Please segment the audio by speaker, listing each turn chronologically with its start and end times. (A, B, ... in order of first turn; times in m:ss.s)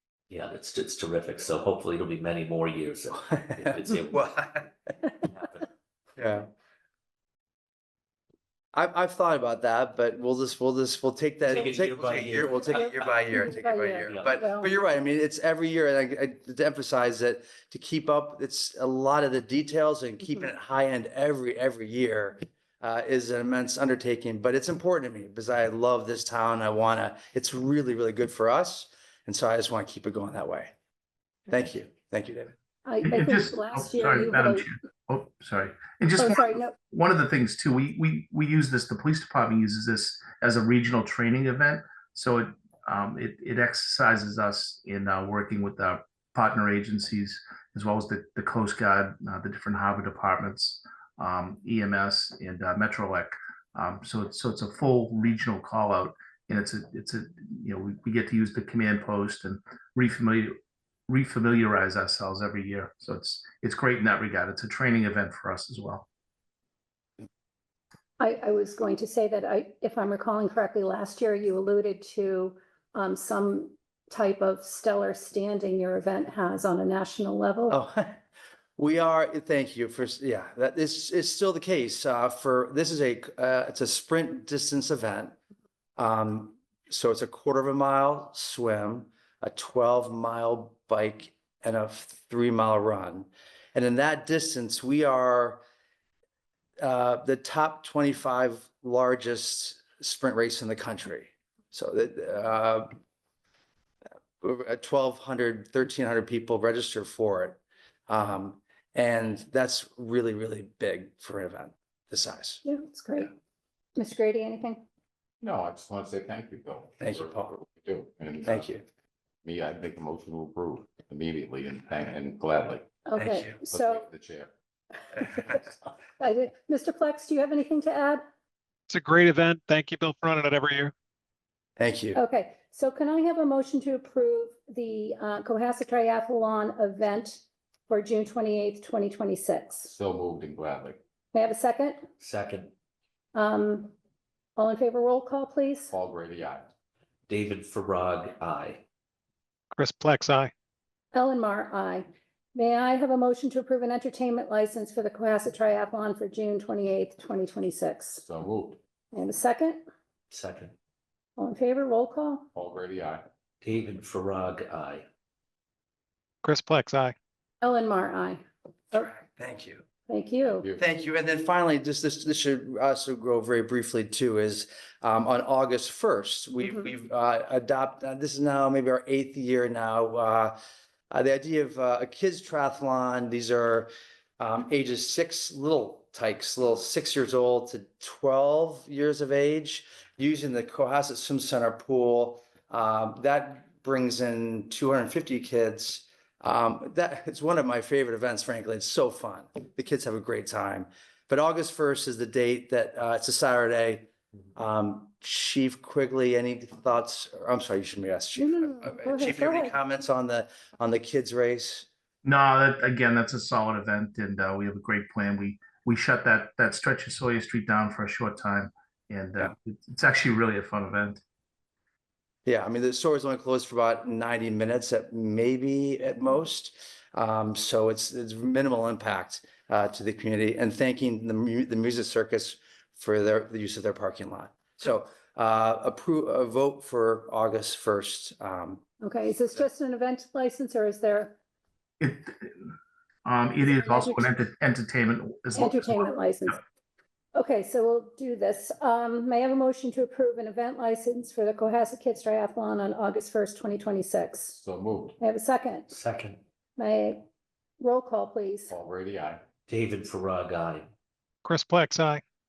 0:00.3-0:04.3 A
0:03.7-0:04.7 B
0:05.2-0:05.7 A
0:06.2-0:06.5 B
0:08.7-0:30.7 B
0:11.5-0:14.4 A
0:12.5-0:14.7 C
0:31.5-0:32.5 B
0:32.8-0:34.7 C
0:33.0-1:00.5 D
0:36.2-0:36.7 C
1:01.1-1:06.0 D
1:08.2-1:17.7 C
1:17.7-1:18.2 B
1:18.8-1:25.4 B
1:26.0-1:35.6 B
1:36.8-1:42.9 B
1:44.4-1:52.6 B
1:52.6-1:53.3 C
1:54.0-1:54.8 C
1:55.4-1:58.8 E
1:57.0-1:57.6 B
1:58.4-1:58.8 B
1:59.4-2:02.9 E
2:03.0-2:04.0 C
2:03.2-2:03.5 B
2:03.6-2:04.5 E
2:06.2-2:08.2 C
2:08.9-2:10.9 F
2:11.8-2:12.2 B
2:12.1-2:19.9 C
2:19.9-2:21.0 E
2:21.3-2:22.0 C
2:22.2-2:22.7 A
2:23.3-2:23.9 C
2:24.6-2:25.9 C
2:25.9-2:26.7 E
2:27.3-2:28.8 A
2:29.7-2:30.5 F
2:31.1-2:38.2 C
2:38.2-2:38.8 E
2:39.1-2:39.8 C
2:40.3-2:40.7 A
2:41.4-2:42.4 C
2:42.5-2:43.2 E
2:43.6-2:45.0 A
2:46.4-2:47.1 F
2:47.6-2:49.1 C
2:49.2-2:49.8 B
2:50.1-2:50.7 C
2:50.5-2:50.8 E
2:50.8-3:00.6 B
3:01.1-3:31.9 B
3:28.4-3:29.7 C
3:32.2-3:41.2 D
3:42.4-3:58.8 B
3:59.0-4:01.4 C
4:02.0-4:02.7 D
4:03.2-4:06.1 D
4:03.6-4:04.3 C
4:05.5-4:06.6 C
4:07.3-4:14.6 C
4:14.6-4:15.2 E
4:15.2-4:15.9 C
4:15.9-4:16.4 A
4:16.8-4:17.2 C
4:17.8-4:18.7 C
4:18.7-4:19.4 E
4:19.7-4:20.9 A
4:21.4-4:22.2 F